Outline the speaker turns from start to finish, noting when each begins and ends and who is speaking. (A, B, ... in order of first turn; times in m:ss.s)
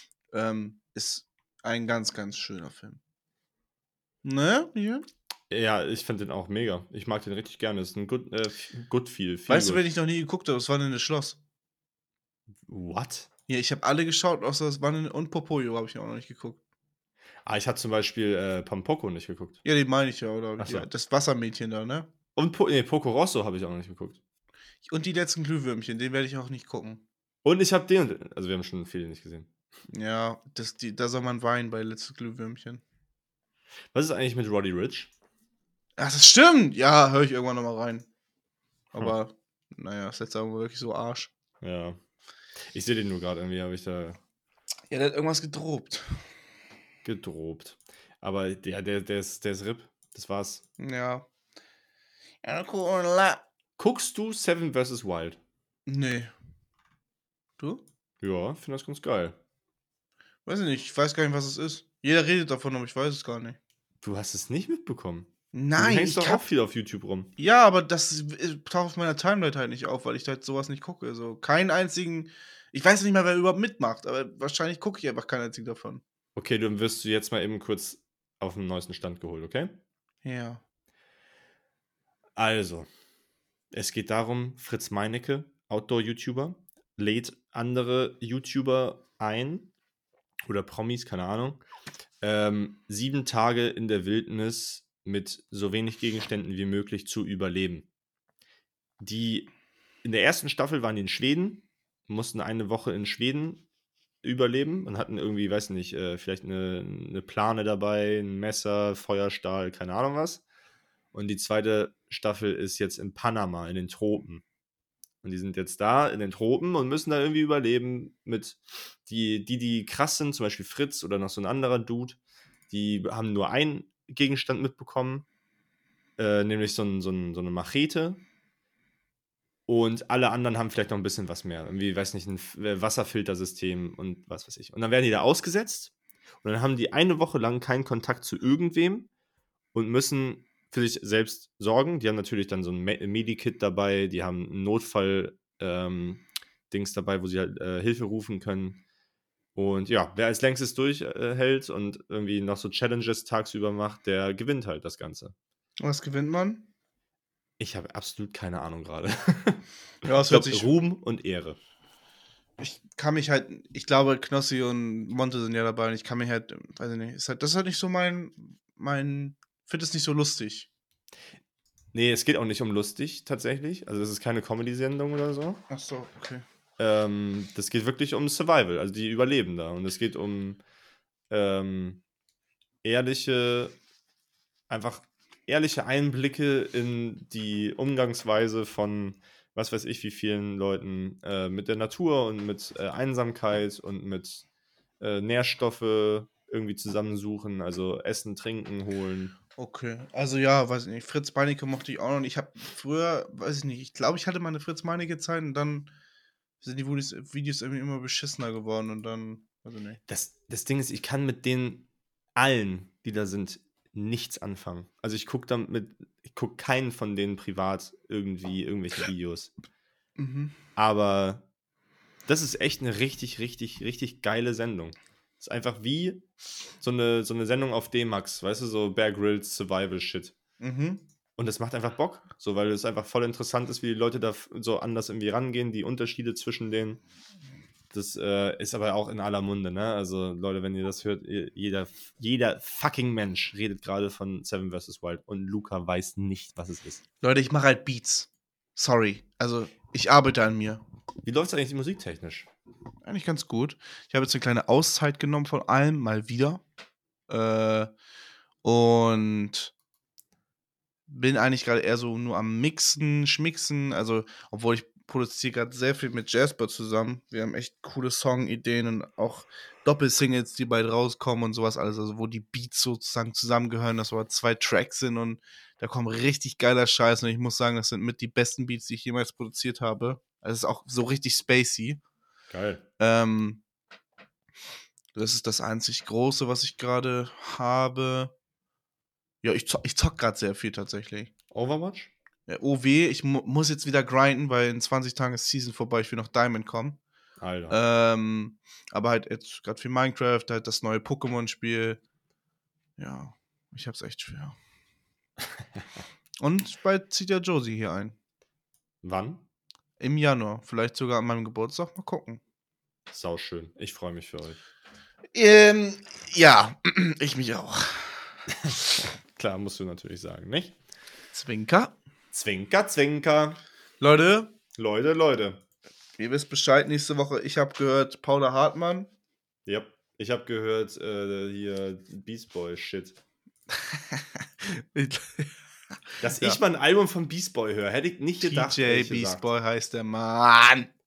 0:00.3-0:03.0 A
0:04.2-0:05.0 A
0:05.5-0:09.8 B
0:09.5-0:11.4 A
0:12.7-0:13.3 B
0:13.5-0:16.6 A
0:17.4-0:19.6 B
0:19.6-0:22.1 A
0:20.6-0:20.9 B
0:22.4-0:24.2 B
0:24.8-0:27.0 A
0:27.4-0:29.5 B
0:29.9-0:32.8 A
0:33.9-0:35.1 B
0:36.0-0:38.1 A
0:38.9-0:41.3 A
0:41.6-0:42.0 B
0:42.7-0:44.2 B
0:44.9-0:46.2 A
0:47.0-0:50.6 B
0:50.8-0:51.3 A
0:52.4-0:53.4 A
0:53.8-0:55.4 B
0:55.9-0:56.3 A
0:58.2-0:59.4 B
1:00.4-1:03.6 A
1:04.0-1:07.3 B
1:05.5-1:06.4 A
1:07.4-1:16.0 A
1:16.4-1:19.7 B
1:20.2-1:20.6 A
1:22.4-1:22.9 B
1:23.7-1:29.7 B
1:30.5-1:31.6 B
1:32.2-1:37.9 B
1:39.0-1:39.5 B
1:40.0-1:43.6 B
1:44.2-1:50.4 B
1:51.1-1:54.4 B
1:55.2-2:02.2 B
2:02.7-2:05.3 B
2:06.2-2:08.2 B
2:09.7-2:15.9 B
2:16.4-2:19.1 B
2:19.7-2:28.8 B
2:29.6-2:35.4 B
2:35.8-2:36.6 A
2:37.6-2:41.6 B
2:40.0-2:40.7 A
2:42.6-2:50.7 A
2:51.9-2:55.6 B
2:55.7-2:56.4 A
2:56.8-3:00.6 B
3:01.3-3:02.0 B
3:02.8-3:03.8 B
3:04.7-3:14.4 B
3:15.0-3:19.4 B
3:19.6-3:25.9 A
3:26.6-3:30.0 A
3:30.1-3:39.5 B
3:40.2-3:40.6 A
3:40.8-3:41.4 B
3:42.3-3:46.2 B
3:46.8-3:50.4 B
3:50.6-3:51.0 A
3:51.4-3:57.0 B
3:57.9-4:07.0 B
4:07.2-4:10.8 A
4:11.2-4:12.5 B
4:13.0-4:16.6 A
4:17.3-4:17.9 A
4:18.6-4:19.7 A
4:21.1-4:42.0 A
4:42.5-4:42.8 B
4:43.0-4:43.6 A
4:45.2-4:48.3 A
4:49.4-4:51.3 A
4:51.5-4:52.1 B
4:52.5-4:57.0 A
4:57.4-4:57.8 B
4:57.7-5:02.0 A
5:03.0-5:04.6 A
5:06.4-5:08.1 A
5:09.0-5:09.4 B
5:10.0-5:12.4 A
5:13.1-5:14.6 B
5:15.3-5:18.4 A
5:18.5-5:20.8 B
5:21.3-5:21.9 A
5:22.3-5:23.6 B
5:24.0-5:24.6 A
5:24.7-5:25.6 B
5:26.2-5:29.1 A
5:29.7-5:33.2 B
5:33.9-5:35.5 A
5:36.2-5:36.6 A
5:36.2-5:39.4 B
5:38.4-5:40.9 A